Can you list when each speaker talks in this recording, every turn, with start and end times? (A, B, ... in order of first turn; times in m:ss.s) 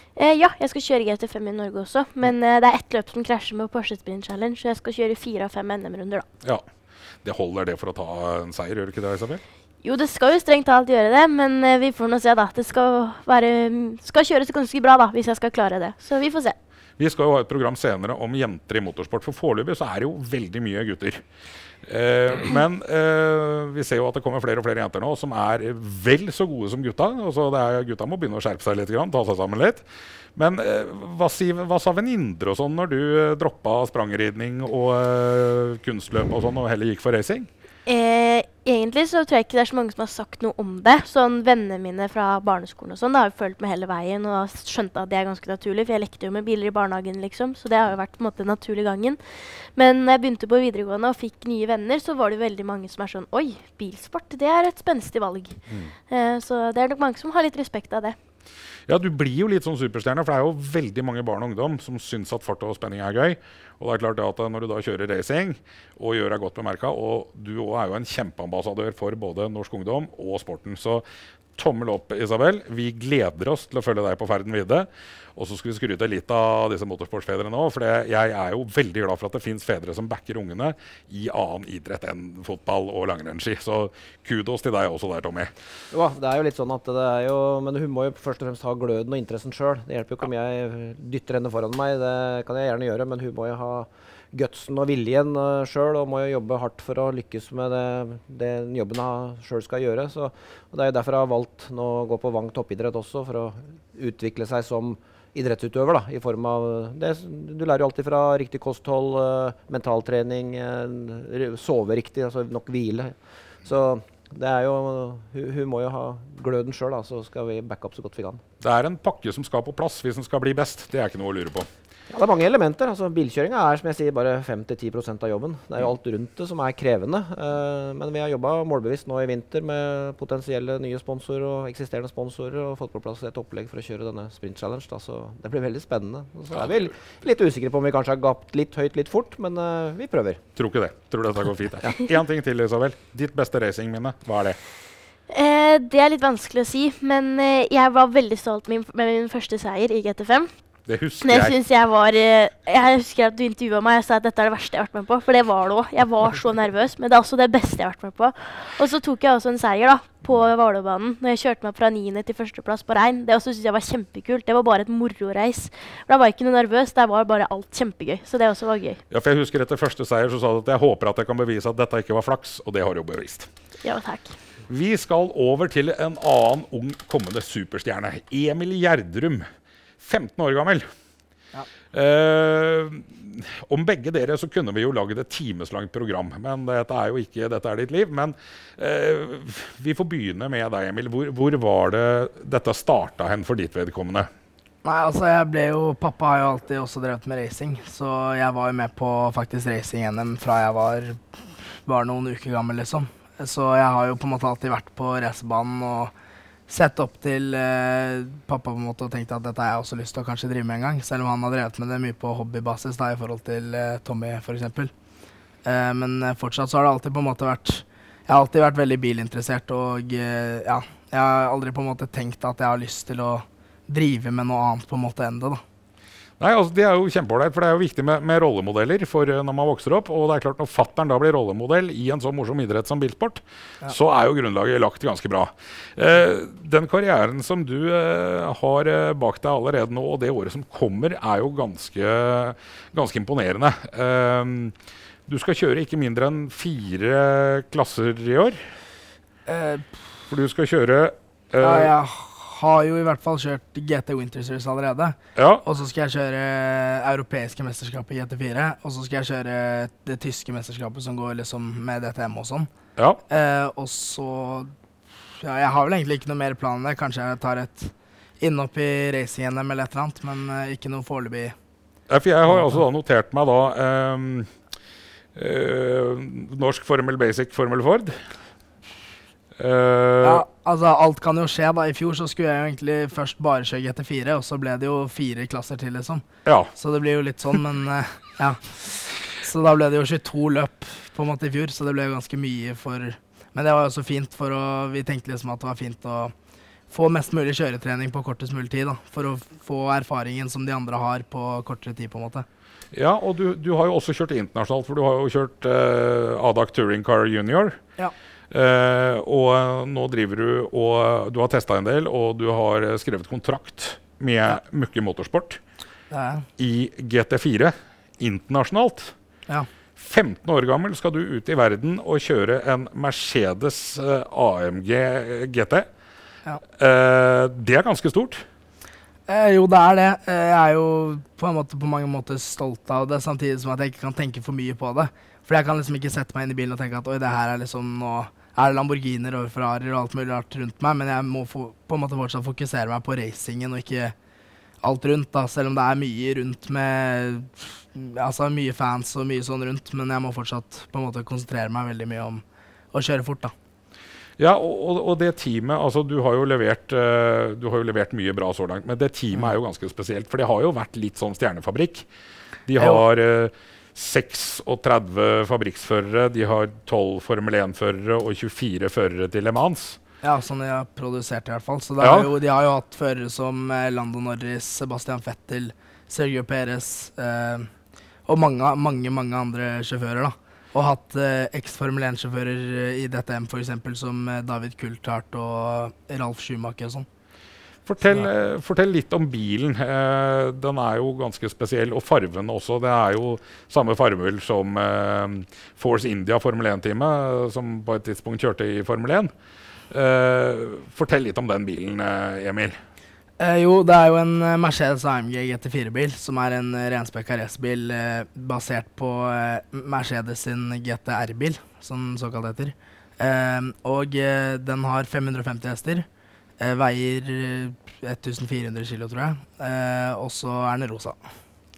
0:00.2-0:06.3 A
0:07.2-0:09.4 B
0:09.8-0:16.6 A
0:17.0-0:21.2 B
0:21.9-0:37.5 B
0:37.9-0:49.2 A
0:49.8-0:58.2 A
0:58.9-1:11.0 B
1:11.6-1:25.5 B
1:25.9-1:58.4 C
1:58.6-2:01.7 B
2:02.1-2:20.4 C
2:16.5-2:16.8 B
2:20.6-2:24.6 B
2:25.3-2:30.5 A
2:30.9-2:31.6 B
2:31.2-2:49.0 A
2:49.1-2:53.5 B
2:53.8-2:54.4 A
2:54.7-2:59.5 B
3:00.0-3:00.9 B
3:01.9-3:14.3 B
3:14.8-3:21.2 D
3:21.9-3:26.1 D
3:26.7-3:34.9 D
3:35.6-3:45.6 D
3:46.4-4:04.7 B
4:05.3-4:08.6 B
4:09.5-4:09.9 D
4:10.3-4:11.9 B
4:11.6-4:22.7 D
4:15.4-4:15.6 B
4:23.3-4:24.7 D
4:25.4-4:31.6 D
4:32.1-4:34.5 B
4:32.5-4:32.8 D
4:35.4-4:38.1 B
4:39.6-4:40.4 B
4:40.2-4:56.3 D
4:46.4-4:46.7 B
4:56.9-5:02.5 D
5:02.9-5:07.8 B
5:08.5-5:15.6 B
5:16.1-5:16.4 D
5:16.6-5:19.1 B
5:20.0-5:25.9 B
5:26.8-5:28.4 B
5:29.3-5:44.2 D
5:44.8-5:53.5 D
5:54.4-6:02.1 B
6:02.7-6:10.0 B
6:02.8-6:03.0 D
6:10.2-6:17.7 D
6:12.0-6:12.3 B
6:18.3-6:27.1 D
6:27.9-6:39.3 B
6:28.0-6:28.3 D
6:39.9-6:42.8 B
6:43.4-6:56.1 D
6:56.6-7:01.2 D